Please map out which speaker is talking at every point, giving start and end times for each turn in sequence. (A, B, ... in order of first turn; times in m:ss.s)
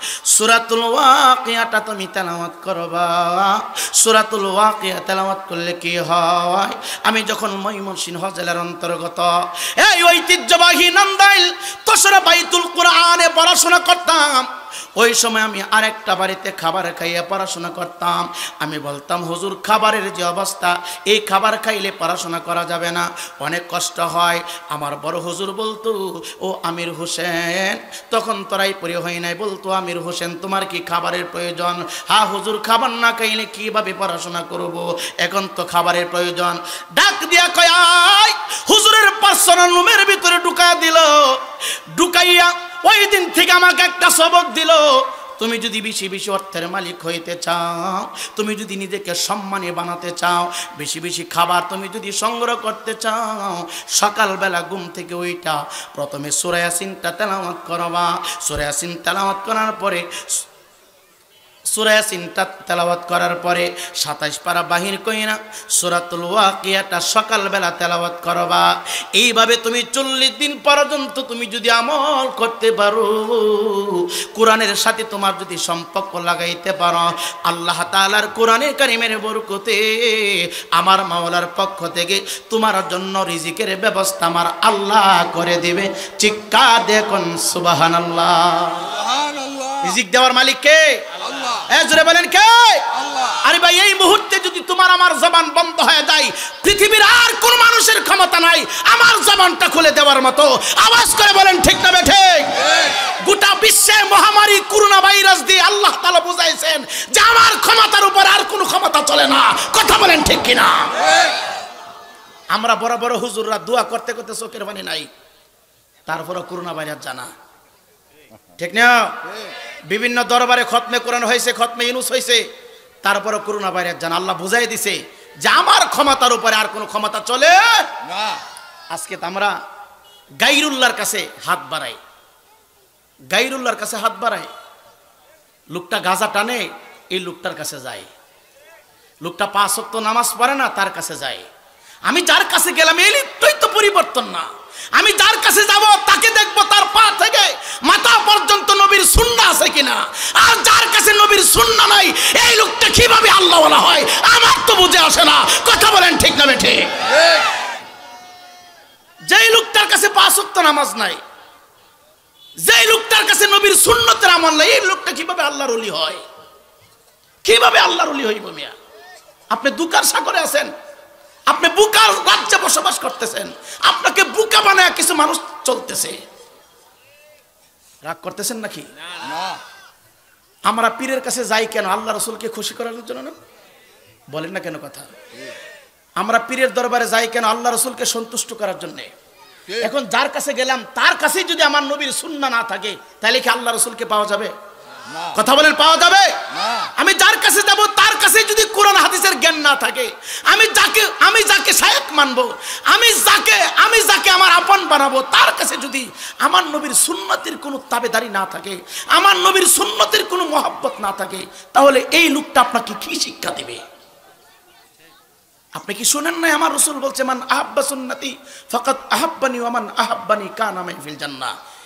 0:00.3-1:00.4 A
1:01.7-1:28.9 A
1:28.8-1:30.0 B
1:29.8-1:31.0 A
1:31.2-1:31.7 B
1:31.7-1:32.9 A
1:32.9-1:33.4 B
1:33.4-1:51.0 A
1:42.6-1:42.9 B
1:51.0-1:51.3 B
1:52.5-1:55.1 A
1:56.1-1:57.3 A
1:58.6-1:59.2 A
1:59.9-2:02.5 A
2:03.0-2:07.9 A
2:08.0-2:08.4 B
2:08.9-2:09.6 A
2:10.4-2:12.0 A
2:13.3-2:14.5 A
2:15.7-2:18.1 A
2:19.2-2:21.5 A
2:22.1-2:37.0 A
2:37.1-2:37.5 B
2:39.3-2:41.2 A
2:42.6-2:46.2 A
2:47.4-2:48.8 A
2:49.5-2:50.7 A
2:51.5-2:56.2 A
2:58.0-2:58.9 A
2:59.2-2:59.6 B
3:00.7-3:03.4 A
3:04.3-3:05.1 A
3:06.2-3:09.1 A
3:09.7-3:09.9 B
3:09.8-3:14.5 A
3:15.1-3:15.4 B
3:15.4-3:16.4 A
3:16.5-3:16.9 B
3:17.0-3:33.8 A
3:35.8-3:41.5 A